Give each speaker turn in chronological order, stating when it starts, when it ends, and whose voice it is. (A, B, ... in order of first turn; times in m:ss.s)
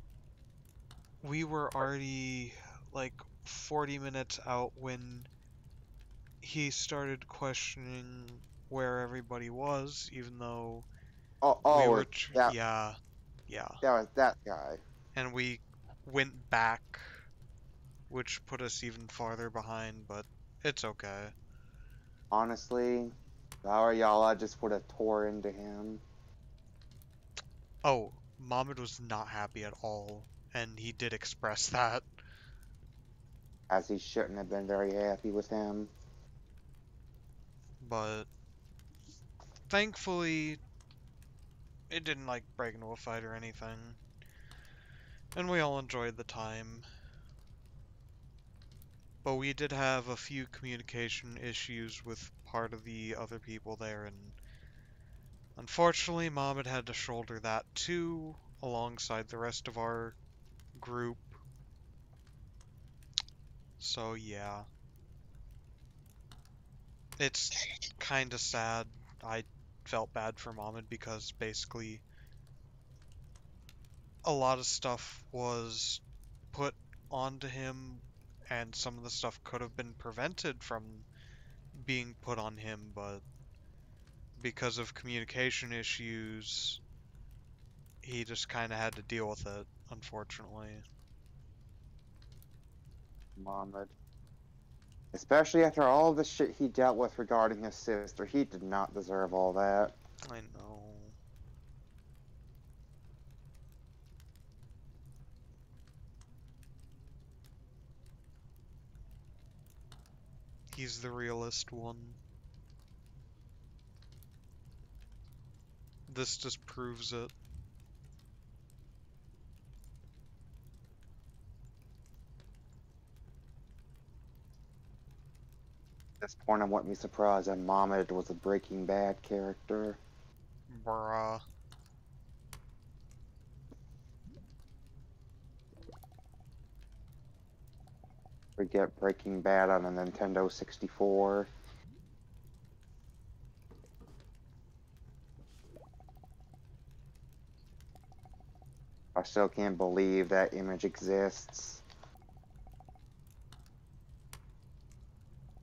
0:01.2-0:05.3 A
0:06.4-0:10.9 A
0:11.4-0:12.6 B
0:11.7-0:13.8 A
0:13.8-0:14.8 B
0:15.2-0:17.2 A
0:18.1-0:21.4 A
0:22.3-0:26.0 B
0:27.8-0:32.1 A
0:33.7-0:35.9 B
0:37.8-0:38.3 A
0:39.7-0:40.6 A
0:41.9-0:44.0 A
0:45.3-0:46.9 A
0:49.2-0:54.4 A
0:55.6-1:00.2 A
1:00.8-1:01.4 A
1:03.8-1:04.7 A
1:07.2-1:12.0 A
1:14.2-1:21.1 A
1:21.7-1:23.2 A
1:24.4-1:26.8 A
1:28.0-1:30.8 A
1:33.4-1:33.9 B
1:35.1-1:40.0 B
1:40.3-1:41.2 A
1:50.7-1:52.2 A
1:56.1-1:57.3 A
2:06.2-2:10.0 B
2:10.7-2:11.4 A
2:18.6-2:21.5 B
2:29.2-2:31.8 B